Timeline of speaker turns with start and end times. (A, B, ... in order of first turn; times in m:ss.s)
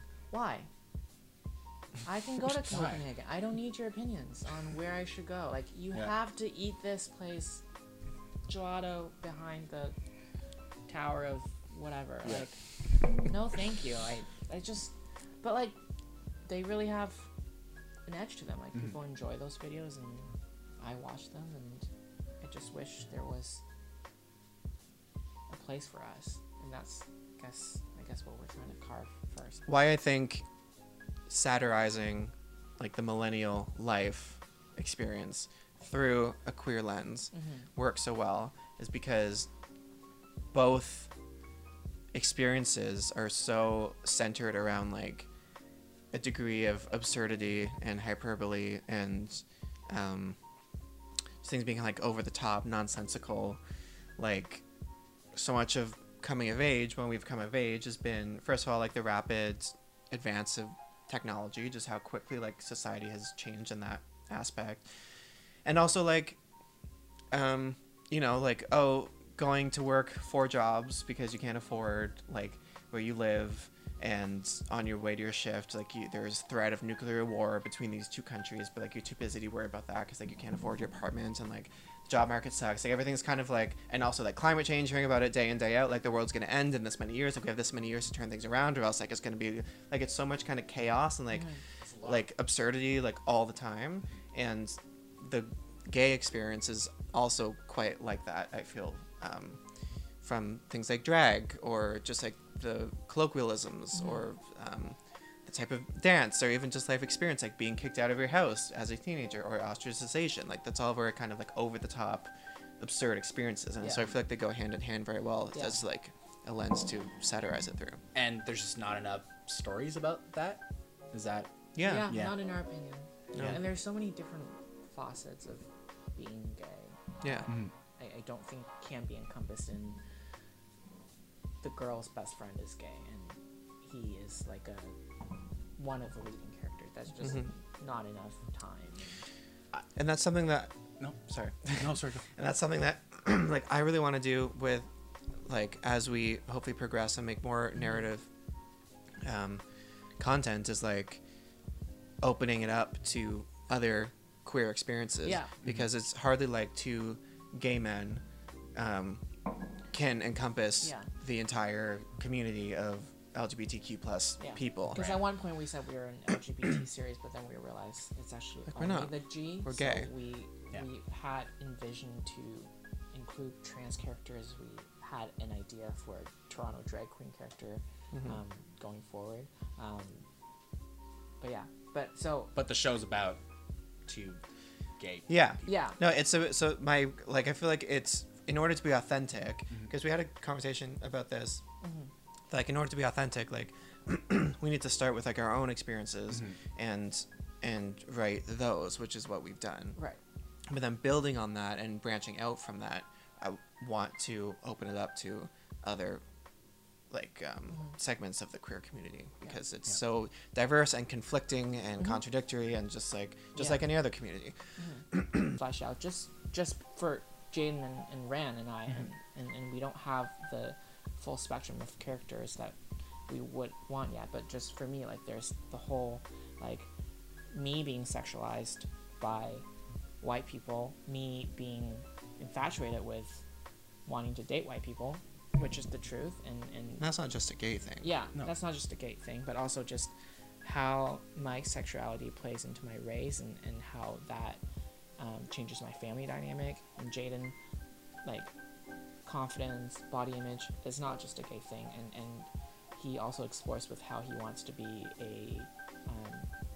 0:00.3-0:00.7 A
0:02.0-0:07.6 A
0:02.7-0:03.0 B
0:08.5-0:09.9 A
0:10.9-0:12.6 A
0:13.2-0:15.8 A
0:16.4-0:17.3 A
0:18.1-0:21.9 A
0:22.4-0:23.6 A
0:25.5-0:29.7 A
0:29.7-0:30.4 C
0:31.3-0:39.5 C
0:37.3-0:37.6 A
0:40.5-0:41.1 C
0:42.1-0:45.3 C
0:46.1-0:50.4 C
0:51.4-0:53.6 C
0:54.2-0:54.6 C
0:55.3-1:04.8 C
1:05.6-1:06.4 C
1:07.3-1:31.5 C
1:31.8-1:32.3 B
1:32.0-1:39.6 C
1:40.2-1:58.0 C
1:53.8-1:54.1 A
1:58.1-2:02.3 B
2:01.7-2:02.1 C
2:01.8-2:10.0 A
2:03.3-2:03.6 C
2:07.2-2:07.5 C
2:11.6-2:15.0 A
2:15.8-2:19.3 A
2:20.0-2:20.7 C
2:21.0-2:22.3 B
2:21.3-2:24.9 C
2:25.4-2:28.3 C
2:29.2-2:29.6 C
2:30.2-2:31.2 C
2:32.2-2:38.2 C
2:35.2-2:35.5 A
2:38.8-2:39.2 C
2:39.9-2:45.0 C
2:40.8-2:41.1 A
2:44.4-3:00.2 A
2:45.0-2:45.2 B
2:48.7-2:50.1 C
3:01.4-3:02.6 A
3:02.6-3:03.4 B
3:04.1-3:04.4 B
3:05.0-3:05.7 B
3:05.3-3:11.6 C
3:05.7-3:06.0 A
3:11.8-3:12.1 A
3:12.5-3:20.0 C
3:20.7-3:26.2 C
3:27.1-3:34.6 C
3:33.6-3:33.8 A
3:34.8-3:42.8 A
3:35.1-3:35.5 C
3:43.3-3:46.9 A
3:47.5-3:49.6 A
3:50.2-3:53.4 A
3:54.1-3:57.1 A
3:57.0-3:58.1 C
3:58.0-4:04.6 A
4:05.2-4:07.6 A
4:08.2-4:08.5 A
4:09.2-4:16.5 A